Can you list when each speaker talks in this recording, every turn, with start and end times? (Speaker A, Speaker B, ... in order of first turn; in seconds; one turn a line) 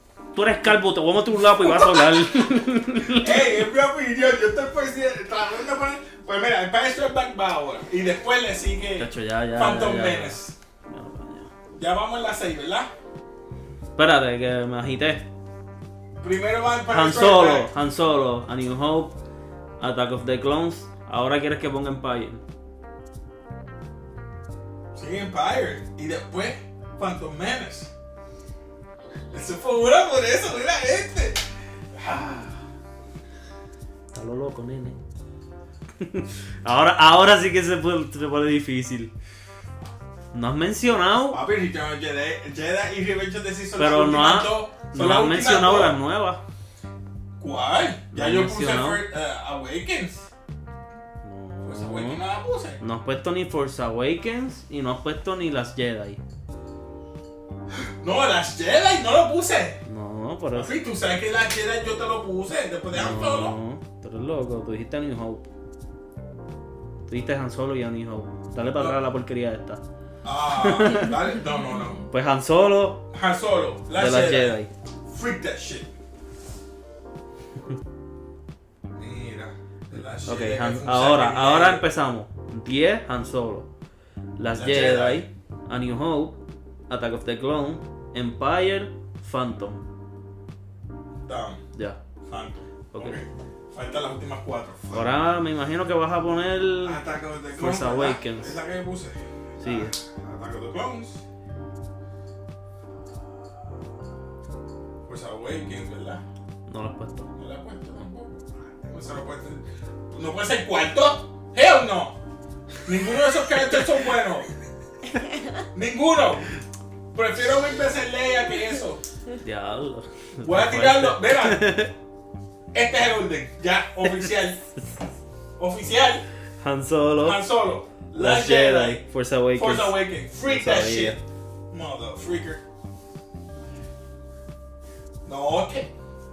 Speaker A: 0.3-3.6
Speaker B: 1.4-2.4
Speaker B: 3.1-10.6
Speaker A: 9.0-11.5
Speaker B: 11.8-12.9
Speaker A: 14.0-15.2
Speaker B: 16.2-17.7
Speaker A: 16.9-19.1
Speaker A: 19.8-22.4
Speaker B: 24.9-27.9
Speaker B: 29.3-32.6
Speaker A: 34.1-35.0
Speaker A: 36.0-39.1
Speaker A: 40.3-41.4
Speaker B: 41.3-46.0
Speaker A: 43.8-46.4
Speaker B: 47.4-50.3
Speaker A: 48.1-49.0
Speaker A: 51.2-52.2
Speaker B: 51.6-52.8
Speaker A: 52.8-56.2
Speaker B: 57.8-59.8
Speaker A: 59.9-60.7
Speaker B: 60.5-63.5
Speaker A: 62.9-65.5
Speaker A: 67.1-69.8
Speaker B: 70.2-72.0
Speaker A: 70.5-71.2
Speaker A: 72.1-73.0
Speaker B: 73.1-75.9
Speaker A: 74.0-74.7
Speaker B: 78.9-81.8
Speaker A: 80.2-83.7
Speaker A: 84.4-89.8
Speaker B: 84.5-85.2
Speaker B: 91.2-91.6
Speaker B: 92.2-95.1
Speaker A: 92.9-93.2
Speaker A: 94.9-97.0
Speaker B: 96.8-101.2
Speaker A: 97.5-98.5
Speaker A: 99.6-99.9
Speaker B: 105.0-106.2
Speaker A: 106.7-107.3
Speaker B: 107.4-112.2
Speaker B: 112.8-114.5
Speaker B: 115.7-116.5
Speaker B: 117.1-119.0
Speaker A: 119.4-121.9
Speaker B: 120.4-121.8
Speaker B: 122.7-124.6
Speaker B: 125.6-126.2
Speaker A: 126.6-127.4
Speaker B: 127.2-131.2
Speaker A: 128.1-131.2
Speaker B: 131.7-132.6
Speaker B: 135.2-135.9